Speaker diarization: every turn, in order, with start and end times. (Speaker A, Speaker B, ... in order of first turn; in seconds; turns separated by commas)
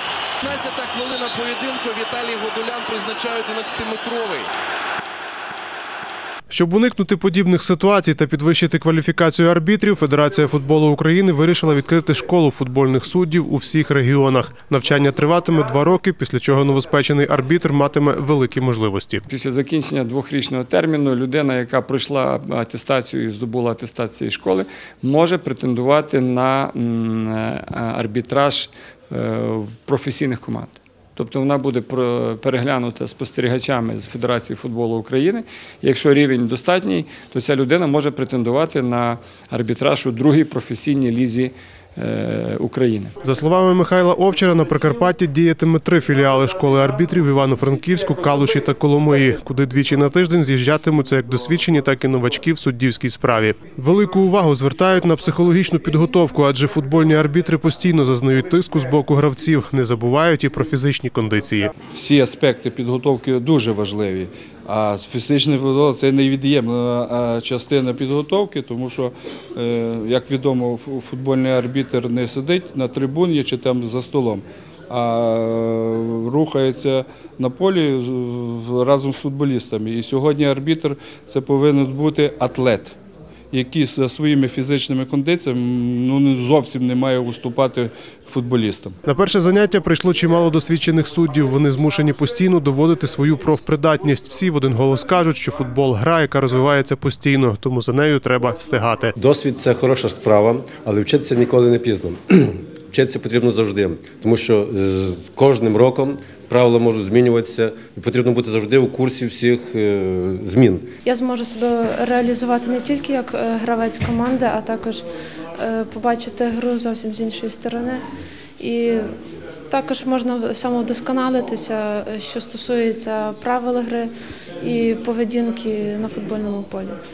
Speaker A: 0.4-4.5, Speaker B: 6.5-19.3, Speaker C: 19.3-43.1, Speaker B: 43.2-61.7, Speaker D: 61.9-83.0, Speaker D: 83.5-89.0, Speaker B: 89.0-99.1, Speaker E: 99.2-110.9, Speaker F: 111.0-115.0, Speaker F: 115.6-118.0, Speaker F: 118.6-119.1, Speaker F: 119.7-127.0